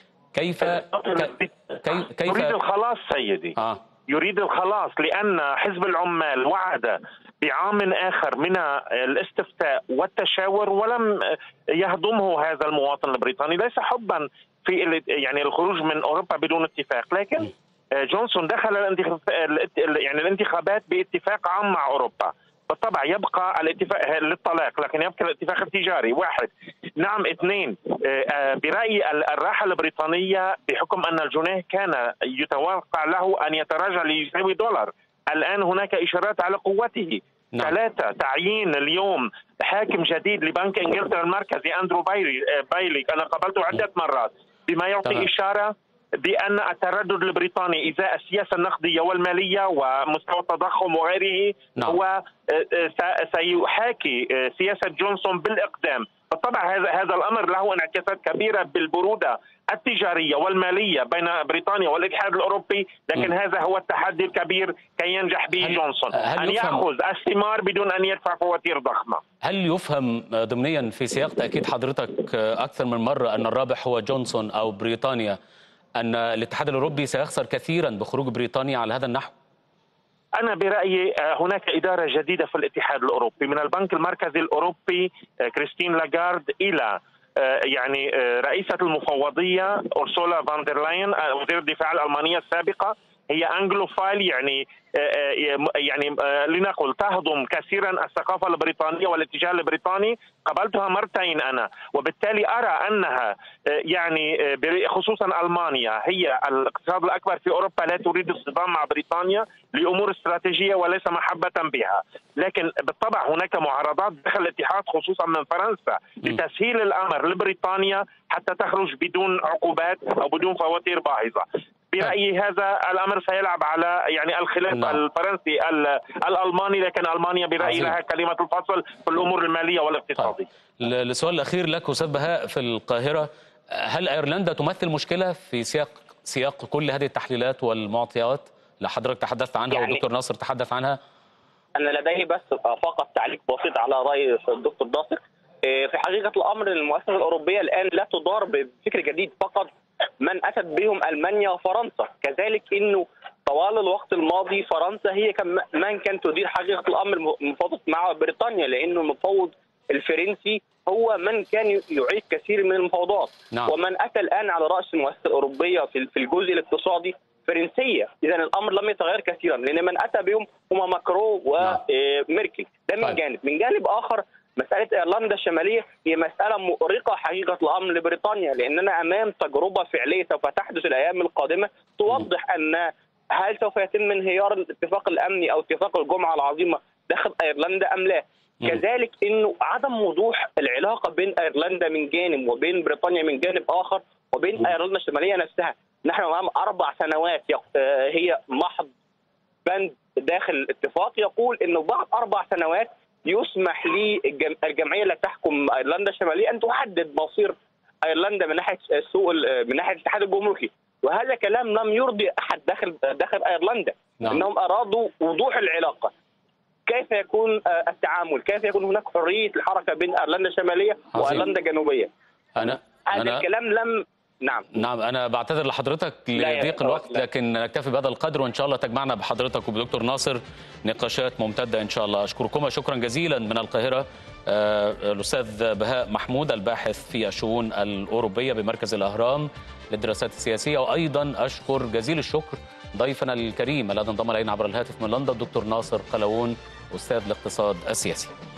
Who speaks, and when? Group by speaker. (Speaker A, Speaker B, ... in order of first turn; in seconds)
Speaker A: 0.3-2.6, 65.6-66.8, 69.4-75.4, 76.0-79.3, 124.7-125.0, 127.6-128.0, 130.2-141.0, 221.1-221.5, 222.6-223.4, 224.7-248.3
Speaker B: 0.7-1.5, 2.3-3.5, 4.1-69.2, 80.4-130.5
Speaker C: 139.7-140.0, 141.8-198.9, 199.7-216.1, 216.9-222.1, 222.7-224.7, 226.3-227.2